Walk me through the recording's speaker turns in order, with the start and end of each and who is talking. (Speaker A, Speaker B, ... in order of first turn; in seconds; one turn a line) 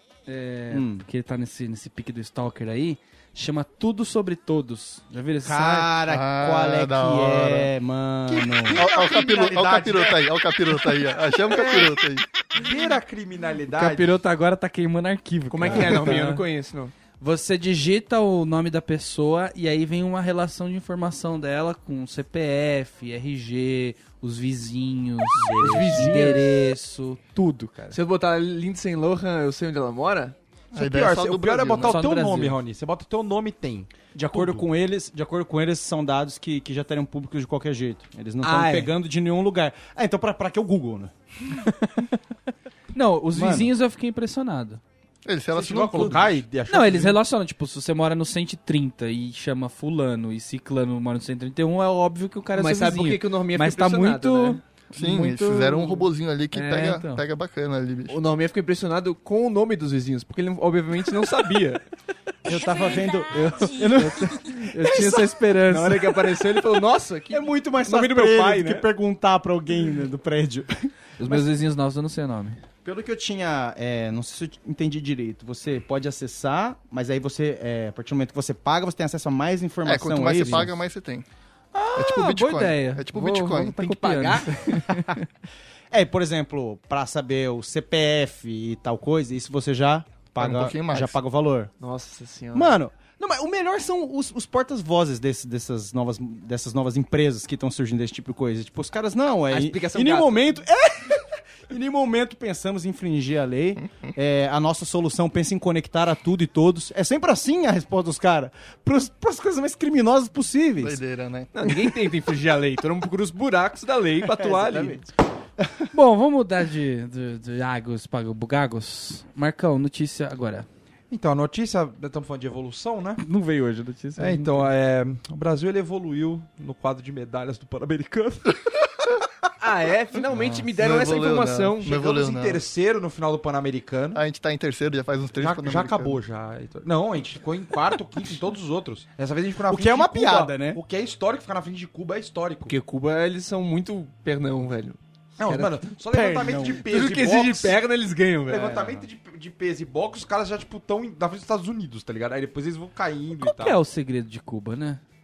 Speaker A: 0.3-5.9
Speaker B: 0.7-1.0
Speaker B: 5.4-10.2
Speaker C: 6.1-7.7
Speaker C: 8.7-12.2
Speaker D: 8.8-9.6
Speaker D: 11.5-11.9
Speaker D: 12.5-14.1
Speaker A: 13.7-16.4
Speaker E: 15.5-16.9
Speaker A: 17.2-28.0
Speaker B: 25.4-26.3
Speaker E: 25.6-26.4
Speaker E: 27.9-30.4
Speaker C: 30.7-32.0
Speaker D: 30.8-34.6
Speaker A: 31.8-32.6
Speaker B: 34.1-41.1
Speaker E: 38.4-38.9
Speaker A: 42.9-44.8
Speaker B: 43.3-43.7
Speaker C: 45.2-46.4
Speaker D: 45.5-47.2
Speaker A: 46.7-57.2
Speaker E: 52.5-54.6
Speaker C: 54.9-58.2
Speaker E: 58.1-61.8
Speaker B: 62.4-65.3
Speaker A: 63.3-66.2
Speaker E: 65.7-68.9
Speaker B: 67.3-71.4
Speaker A: 71.2-72.6
Speaker B: 72.8-80.8
Speaker C: 79.9-81.2
Speaker A: 81.7-85.2
Speaker C: 82.0-83.9
Speaker E: 83.8-84.6
Speaker B: 85.9-91.7
Speaker C: 90.4-91.1
Speaker E: 91.8-92.8
Speaker B: 92.5-111.0
Speaker E: 99.5-100.4
Speaker C: 110.8-111.5
Speaker E: 111.5-115.0
Speaker B: 114.4-115.9
Speaker A: 115.9-120.7
Speaker D: 121.1-123.2
Speaker A: 123.2-124.7
Speaker D: 124.2-128.5
Speaker E: 129.6-132.0
Speaker C: 130.8-132.6
Speaker D: 131.8-134.2
Speaker C: 134.1-136.2
Speaker D: 135.4-142.7
Speaker B: 139.7-140.8
Speaker E: 142.7-145.8
Speaker D: 145.4-147.8
Speaker B: 146.1-146.9
Speaker E: 146.9-148.9
Speaker D: 148.5-153.8
Speaker A: 153.4-155.0